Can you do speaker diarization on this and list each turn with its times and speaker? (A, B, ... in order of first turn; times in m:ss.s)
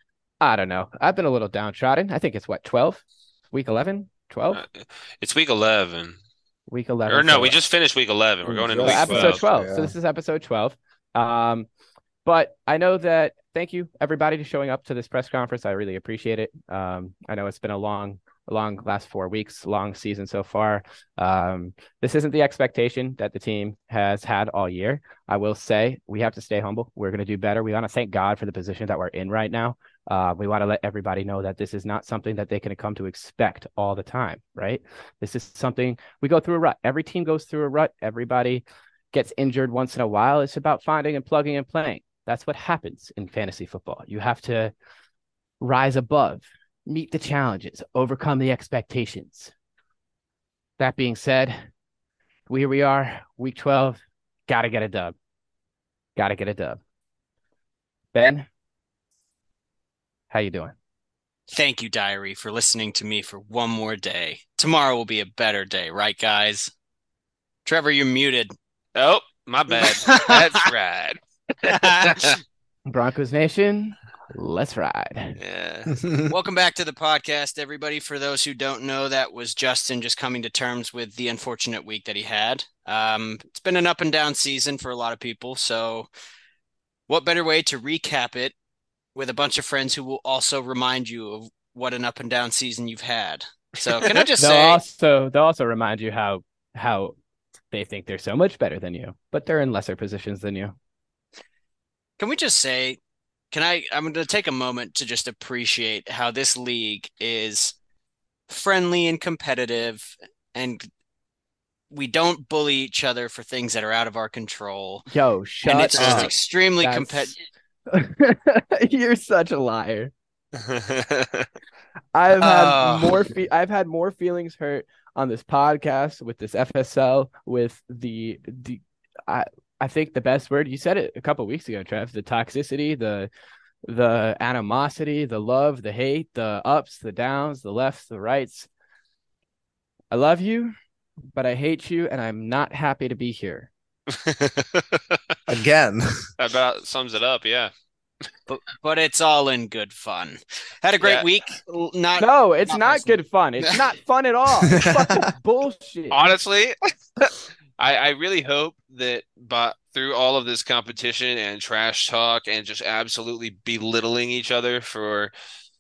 0:00.4-0:04.6 A
0:04.5-0:06.2 B
0:06.7-0:07.6 A
0:07.1-0:09.4 B
0:08.4-0:09.9 C
0:08.8-0:11.7 A
0:12.2-0:44.7 A
0:45.6-0:49.5 A
0:50.8-0:51.7 A
0:52.5-0:55.2 A
0:56.2-0:56.8 A
0:58.1-0:58.5 A
1:00.3-1:00.7 A
1:01.5-1:06.7 D
1:07.6-1:08.5 D
1:09.0-1:12.4 B
1:09.7-1:10.6 D
1:11.7-1:12.3 D
1:12.9-1:15.4 A
1:15.4-1:16.0 B
1:15.9-1:16.3 C
1:16.3-1:26.1 D
1:27.1-1:28.5 D
1:29.2-1:34.8 D
1:33.9-1:34.2 B
1:34.4-1:37.2 A
1:37.7-1:40.8 A
1:42.2-1:43.0 D
1:43.5-1:47.8 D
1:48.5-1:50.9 D
1:51.9-1:55.1 D
1:55.1-1:56.2 A
1:55.6-1:57.3 D
1:56.0-1:56.3 C
1:56.8-1:57.4 A
1:57.9-2:00.1 A
2:00.6-2:01.5 B
2:02.1-2:13.3 A
2:02.4-2:03.2 D
2:13.8-2:18.7 A
2:20.1-2:20.8 A
2:21.3-2:23.7 A
2:24.1-2:25.4 B
2:25.5-2:26.3 C
2:26.4-2:27.7 B
2:28.5-2:33.9 D
2:31.0-2:31.3 B
2:32.2-2:36.2 A
2:34.7-2:35.3 C
2:36.1-2:45.3 B